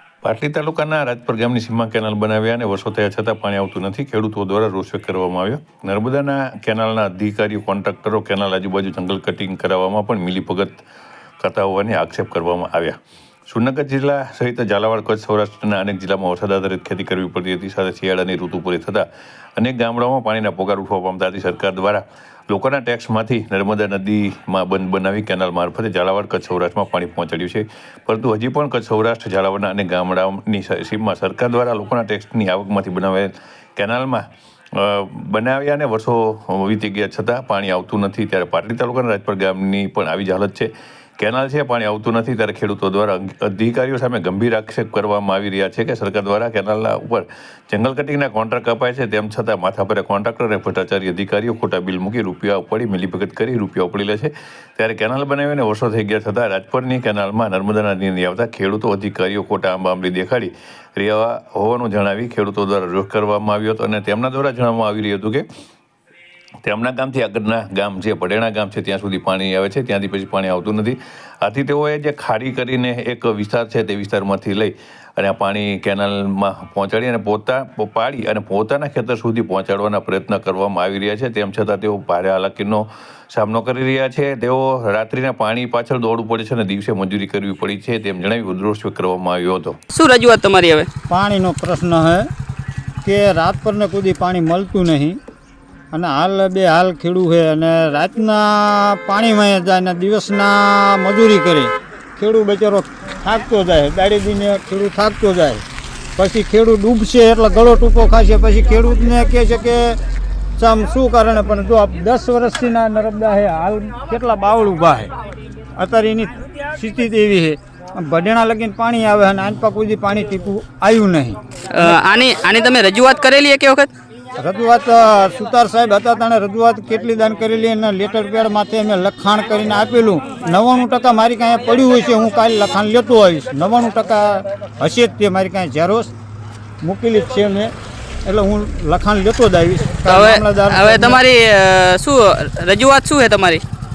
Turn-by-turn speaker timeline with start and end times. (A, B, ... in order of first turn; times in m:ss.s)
0:00.2-0:10.8 A
0:11.4-0:13.0 A
0:13.5-0:34.2 A
0:34.8-1:05.4 A
1:06.6-1:29.8 A
1:29.9-1:30.9 B
1:31.1-1:32.2 C
1:33.0-1:35.2 C
1:35.9-1:45.6 C
1:46.2-1:50.0 C
1:50.6-1:55.1 C
1:55.8-2:01.9 C
2:01.7-2:03.9 B
2:04.4-2:16.1 C
2:16.8-2:17.7 C
2:18.2-2:21.2 C
2:20.1-2:23.6 B